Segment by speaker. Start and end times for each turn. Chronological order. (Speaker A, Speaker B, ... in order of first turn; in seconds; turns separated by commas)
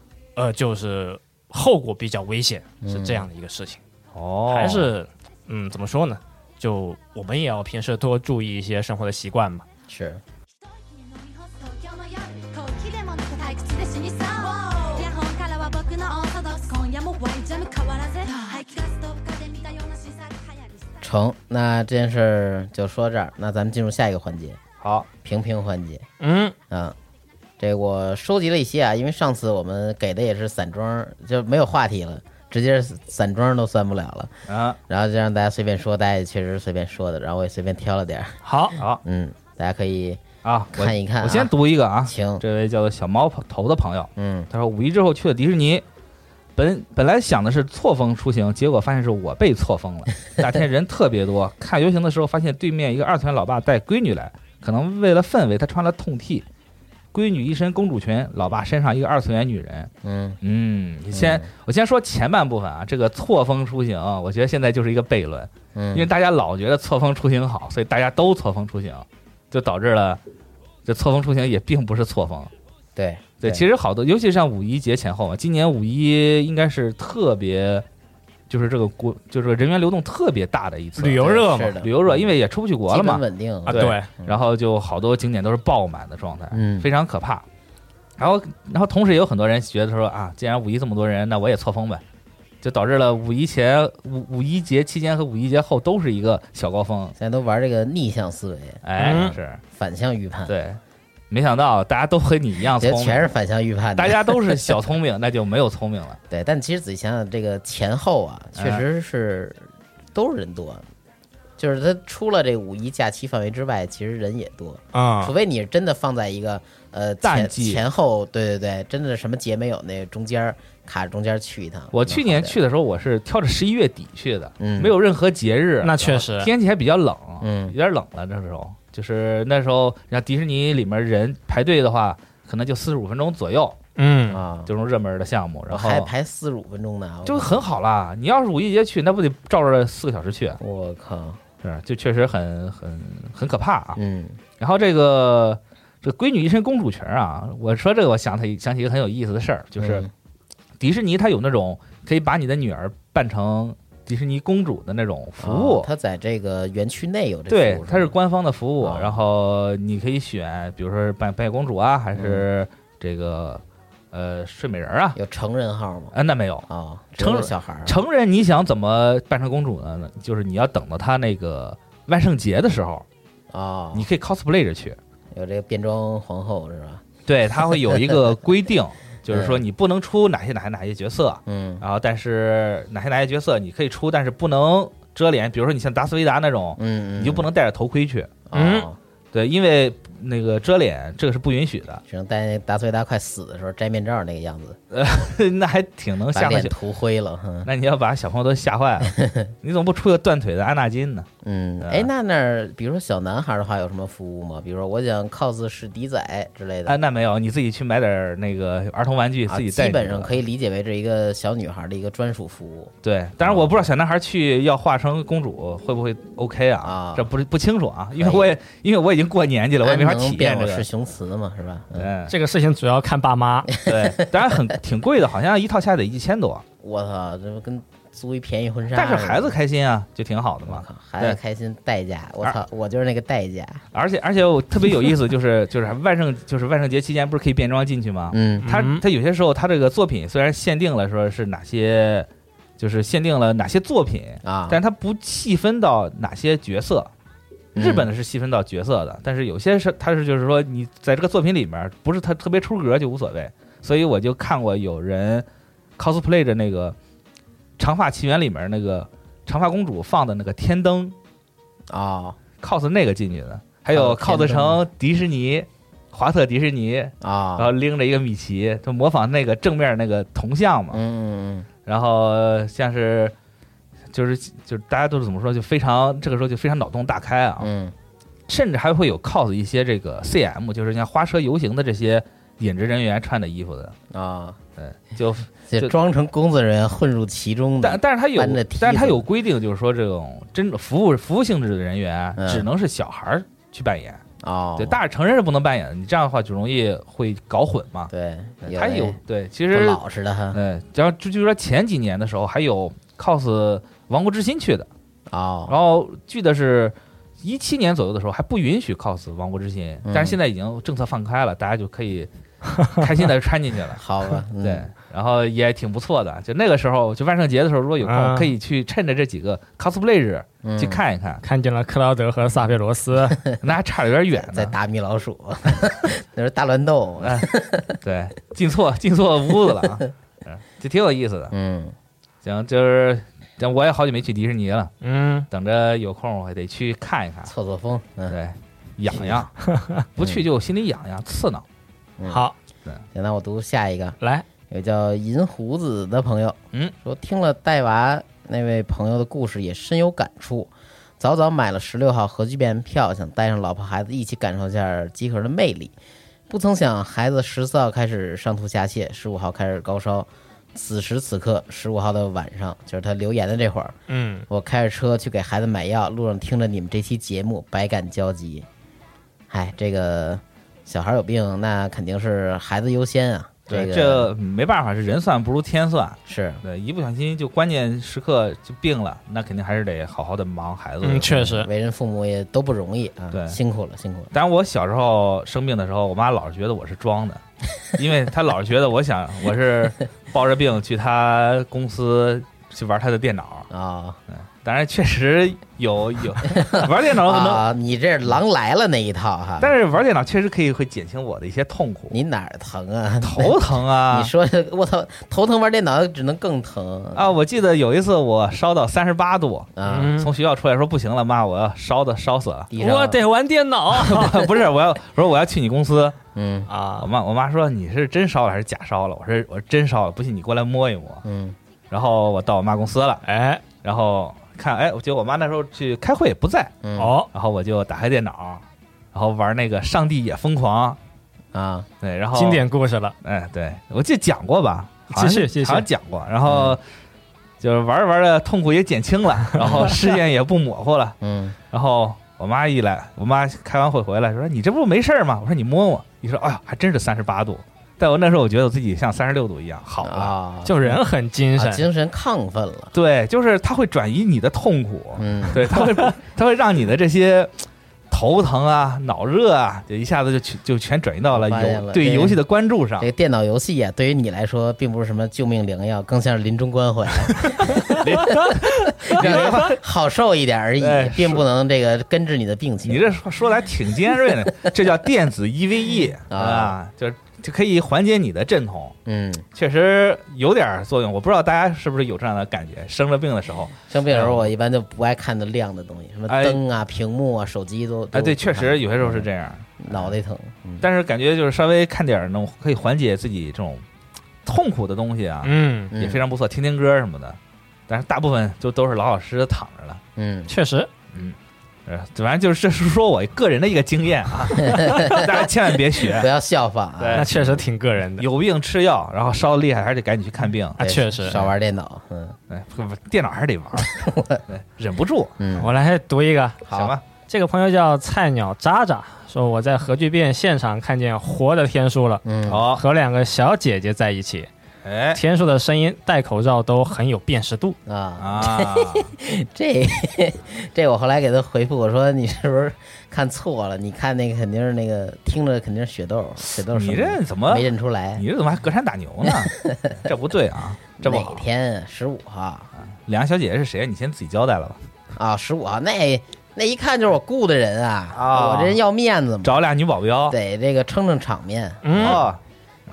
Speaker A: 0.3-3.8, Speaker B: 2.8-3.2, Speaker C: 4.1-4.9, Speaker A: 4.5-9.7, Speaker B: 9.9-10.2, Speaker D: 10.6-21.0, Speaker B: 21.0-24.6, Speaker C: 24.8-25.1, Speaker B: 25.2-26.0, Speaker A: 26.2-26.5, Speaker B: 26.7-26.9, Speaker B: 27.6-34.3, Speaker C: 34.5-34.8, Speaker B: 34.9-38.4, Speaker A: 38.4-38.8, Speaker C: 38.8-39.0, Speaker B: 39.0-41.5, Speaker C: 40.4-45.8, Speaker B: 42.0-42.4, Speaker B: 44.1-44.5, Speaker C: 46.5-56.4, Speaker C: 57.1-59.9, Speaker B: 60.0-60.4, Speaker C: 60.4-70.2, Speaker B: 61.1-61.5, Speaker B: 65.7-66.1, Speaker C: 70.8-72.5, Speaker B: 73.0-73.6, Speaker C: 73.4-77.8, Speaker C: 78.5-87.4, Speaker A: 81.0-81.8, Speaker B: 81.2-82.3, Speaker B: 82.9-84.4, Speaker A: 83.7-84.1, Speaker B: 86.5-86.9, Speaker C: 88.2-92.0, Speaker C: 92.6-97.1, Speaker B: 97.2-100.5, Speaker C: 98.8-99.6, Speaker A: 99.0-99.3, Speaker C: 100.5-100.8, Speaker C: 101.3-103.2, Speaker B: 102.8-104.8, Speaker C: 104.0-106.2, Speaker B: 106.3-110.8, Speaker C: 108.6-108.8, Speaker B: 111.6-122.6, Speaker A: 114.9-115.3, Speaker C: 117.2-117.8, Speaker C: 121.9-133.8, Speaker B: 124.6-124.9, Speaker A: 125.8-126.5, Speaker B: 127.4-127.8, Speaker A: 134.0-134.4, Speaker B: 134.3-134.7, Speaker C: 134.7-136.1, Speaker B: 135.7-137.7, Speaker C: 137.2-140.6, Speaker B: 140.6-141.4, Speaker C: 141.6-144.0, Speaker B: 143.9-144.4, Speaker C: 144.6-150.0, Speaker B: 149.8-150.1, Speaker C: 150.8-155.9, Speaker B: 155.4-158.1, Speaker C: 157.5-165.2, Speaker B: 158.8-159.2, Speaker B: 162.2-162.4, Speaker B: 165.1-166.1, Speaker C: 166.1-166.7, Speaker B: 166.7-168.0, Speaker C: 167.2-173.0, Speaker B: 173.5-174.1, Speaker C: 173.9-175.0, Speaker B: 175.3-177.0, Speaker C: 177.3-188.4, Speaker B: 179.3-179.6, Speaker B: 181.5-181.8, Speaker B: 186.8-187.5, Speaker B: 188.5-189.0, Speaker A: 188.5-188.9, Speaker C: 189.3-192.0, Speaker B: 192.1-194.8, Speaker C: 194.9-196.7, Speaker B: 196.3-197.7, Speaker C: 197.6-201.3, Speaker B: 199.0-199.5, Speaker B: 201.4-207.0, Speaker C: 201.8-202.1, Speaker C: 206.8-210.3, Speaker B: 209.5-213.9, Speaker C: 213.0-220.8, Speaker B: 216.8-217.3, Speaker B: 218.2-218.5, Speaker B: 219.8-222.1, Speaker C: 221.9-222.3, Speaker A: 222.3-223.7, Speaker B: 223.8-224.2, Speaker C: 223.8-226.6, Speaker B: 226.8-229.6, Speaker C: 228.9-231.4, Speaker B: 230.7-233.8, Speaker C: 233.9-242.3, Speaker B: 238.3-238.7, Speaker A: 238.6-239.0, Speaker C: 242.8-247.1, Speaker B: 244.4-244.8, Speaker B: 247.7-248.1, Speaker C: 247.7-255.4, Speaker C: 256.0-256.9, Speaker C: 257.8-261.1, Speaker B: 261.9-262.4, Speaker C: 262.6-271.0, Speaker B: 263.9-264.8, Speaker B: 267.2-267.7, Speaker B: 270.9-271.7, Speaker C: 271.9-273.3, Speaker C: 274.1-277.7, Speaker B: 277.6-277.9, Speaker C: 278.5-283.9, Speaker B: 284.1-284.6, Speaker C: 284.8-285.9, Speaker B: 285.6-289.2, Speaker C: 287.8-294.2, Speaker B: 292.4-292.7, Speaker B: 294.4-295.0, Speaker C: 294.8-298.1, Speaker B: 298.1-299.2, Speaker C: 298.7-300.0, Speaker B: 299.7-300.6, Speaker C: 300.5-304.9, Speaker B: 305.3-305.7, Speaker C: 305.7-312.3, Speaker B: 310.0-310.4, Speaker C: 312.9-314.0, Speaker B: 313.9-314.9, Speaker C: 314.6-321.4, Speaker A: 318.0-318.5, Speaker B: 320.6-321.0, Speaker A: 321.4-323.4, Speaker C: 323.6-324.7, Speaker B: 324.4-328.0, Speaker C: 327.2-327.5, Speaker C: 328.0-331.5, Speaker B: 331.5-331.9, Speaker C: 332.4-334.9, Speaker A: 335.0-335.5, Speaker C: 335.5-337.5, Speaker B: 337.4-338.4, Speaker C: 338.3-339.5, Speaker B: 339.1-339.4, Speaker A: 339.7-340.0, Speaker C: 340.1-341.6, Speaker B: 342.2-342.4, Speaker A: 342.3-342.5, Speaker B: 343.1-344.2, Speaker B: 344.7-355.9, Speaker B: 356.5-363.9, Speaker A: 364.1-364.5, Speaker B: 364.5-368.7, Speaker B: 369.5-374.3, Speaker C: 373.7-381.3, Speaker B: 376.3-376.6, Speaker A: 381.0-381.7, Speaker B: 381.3-384.3, Speaker C: 383.3-383.6, Speaker C: 384.3-387.4, Speaker C: 387.9-393.7, Speaker B: 393.7-394.2, Speaker C: 394.3-397.6, Speaker B: 396.5-399.7, Speaker C: 399.6-402.1, Speaker B: 402.1-407.3, Speaker C: 403.2-404.3, Speaker C: 407.1-412.7, Speaker B: 409.8-410.1, Speaker A: 409.9-410.3, Speaker B: 412.7-413.2, Speaker A: 412.8-414.5, Speaker C: 413.9-416.2, Speaker B: 416.3-416.7, Speaker A: 416.7-417.1, Speaker C: 417.0-421.2, Speaker B: 421.2-421.6, Speaker C: 421.9-423.2, Speaker A: 423.2-423.6, Speaker C: 423.8-426.8, Speaker B: 426.8-427.1, Speaker A: 427.0-427.3, Speaker C: 427.3-431.0, Speaker B: 431.5-431.9, Speaker C: 432.0-432.6, Speaker A: 432.3-433.1, Speaker C: 433.2-436.8, Speaker A: 435.1-435.9, Speaker B: 436.4-436.8, Speaker C: 437.6-441.2, Speaker B: 441.2-441.6, Speaker C: 441.7-450.3, Speaker B: 450.0-450.8, Speaker A: 450.6-451.9, Speaker B: 451.6-452.9, Speaker C: 452.9-457.5, Speaker B: 455.2-455.7, Speaker C: 458.1-463.1, Speaker B: 461.3-462.4, Speaker B: 463.0-473.1, Speaker C: 467.6-469.8, Speaker C: 470.8-471.4, Speaker C: 472.8-479.0, Speaker B: 476.3-476.8, Speaker B: 479.1-479.4, Speaker C: 479.5-484.5, Speaker B: 483.9-489.3, Speaker C: 486.3-486.6, Speaker C: 488.1-490.1, Speaker B: 489.8-490.9, Speaker C: 490.8-493.8, Speaker C: 494.4-497.4, Speaker A: 495.4-495.9, Speaker B: 495.9-496.2, Speaker C: 497.9-500.0, Speaker B: 500.1-500.5, Speaker A: 500.5-500.9, Speaker C: 501.1-506.3, Speaker B: 504.6-505.4, Speaker B: 506.1-507.3, Speaker C: 507.0-507.6, Speaker A: 507.1-508.2, Speaker C: 508.2-511.5, Speaker A: 510.8-511.4, Speaker B: 510.8-512.4, Speaker C: 512.5-515.4, Speaker B: 513.9-514.4, Speaker B: 515.4-515.7, Speaker A: 515.5-516.6, Speaker B: 516.6-516.9, Speaker C: 516.7-517.0, Speaker A: 517.3-524.5, Speaker B: 522.2-522.6, Speaker C: 522.5-522.8, Speaker C: 524.8-525.2, Speaker A: 525.1-527.8, Speaker B: 527.9-538.2, Speaker C: 528.2-529.1, Speaker C: 536.6-541.4, Speaker B: 539.2-540.0, Speaker B: 541.0-542.7, Speaker C: 542.9-544.8, Speaker B: 545.1-549.6, Speaker C: 548.1-548.8, Speaker C: 549.4-550.4, Speaker B: 550.3-552.2, Speaker A: 551.8-552.2, Speaker C: 551.9-552.4